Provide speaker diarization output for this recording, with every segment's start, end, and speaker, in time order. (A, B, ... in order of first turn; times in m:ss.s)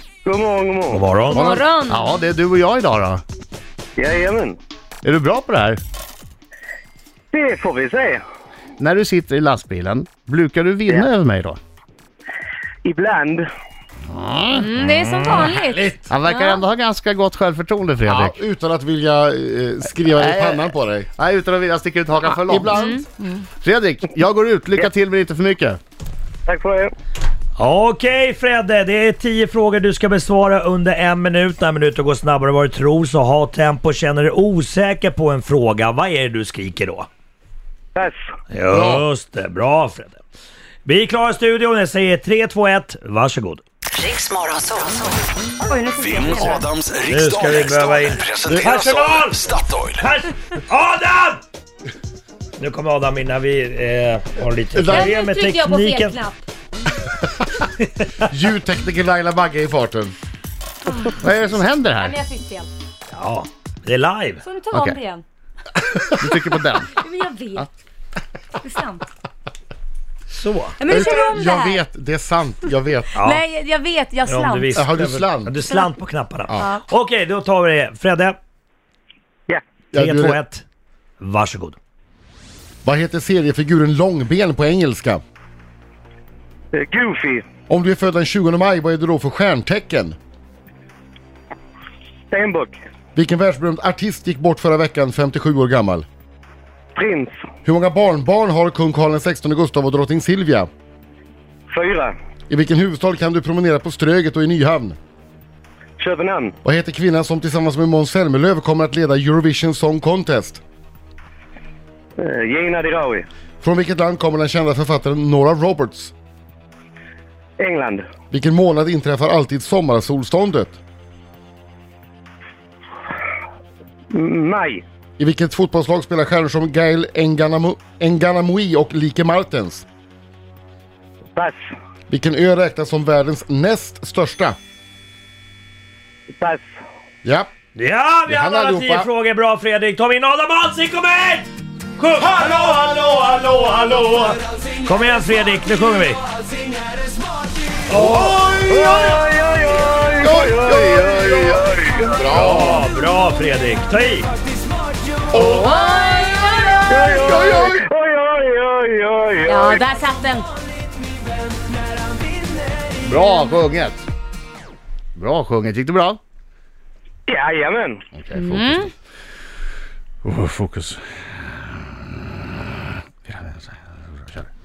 0:00.2-0:01.0 A
0:00.9-0:01.6 B
0:01.3-0:02.1 C
0:01.5-0:03.2 D
0:04.0-0:04.6 A
0:05.0-0:05.8 D
0:07.3-0:08.2 A
0:08.8-0:11.6 D
0:12.8-0:13.4 A
0:14.1-0:14.7 D
0:14.5-0:16.6 C
0:14.8-0:15.5 B
0:15.3-0:16.1 E
0:16.1-0:18.4 D
0:18.0-0:21.1 E
0:20.1-0:22.7 D
0:22.3-0:23.2 E
0:22.7-0:23.1 C
0:23.5-0:25.8 D
0:26.5-0:26.9 A
0:27.6-0:37.1 B
0:38.5-0:40.2 B
0:40.8-0:43.6 B
0:45.6-0:46.7 C
0:46.0-0:50.0 F
0:47.1-0:49.4 B
0:50.0-0:51.4 B
0:52.6-0:56.2 B
0:54.7-0:55.1 E
0:54.9-0:56.4 C
0:58.2-1:00.1 E
1:01.2-1:02.2 D
1:02.0-1:02.7 C
1:03.1-1:04.4 B
1:04.4-1:05.2 C
1:04.7-1:05.0 D
1:06.2-1:07.0 D
1:06.9-1:07.6 C
1:08.6-1:09.0 C
1:10.3-1:10.8 B
1:10.8-1:11.8 C
1:10.9-1:13.1 E
1:13.1-1:13.4 B
1:13.2-1:14.7 C
1:14.2-1:18.4 B
1:14.7-1:15.6 E
1:19.9-1:20.4 E
1:19.9-1:20.6 B
1:21.2-1:21.8 B
1:22.8-1:25.2 E
1:26.7-1:27.4 A
1:27.7-1:30.2 E
1:32.3-1:32.8 A
1:33.1-1:36.0 E
1:36.9-1:37.3 A
1:37.6-1:40.7 E
1:41.7-1:42.1 A
1:42.5-1:45.0 E
1:46.0-1:46.5 A
1:46.6-1:50.6 E
1:52.2-1:53.2 A
1:53.6-1:56.1 E
1:57.6-1:58.0 A
1:58.3-2:00.8 E
2:04.1-2:04.8 A
2:05.2-2:09.8 E
2:12.1-2:14.6 E
2:17.2-2:17.5 E
2:17.7-2:26.2 B
2:18.3-2:19.1 E
2:27.9-2:29.2 B
2:28.3-2:32.2 A
2:30.2-2:32.8 E
2:32.3-2:34.3 B
2:35.3-2:35.9 E
2:35.3-2:35.7 B
2:35.8-2:37.0 C
2:36.9-2:39.9 A
2:37.3-2:37.7 E
2:39.4-2:40.5 C
2:43.0-2:44.1 D
2:45.2-2:46.2 D
2:47.3-2:48.0 A
2:48.1-2:48.9 D
2:48.3-2:48.9 C
2:50.2-2:51.0 D
2:52.0-2:54.5 D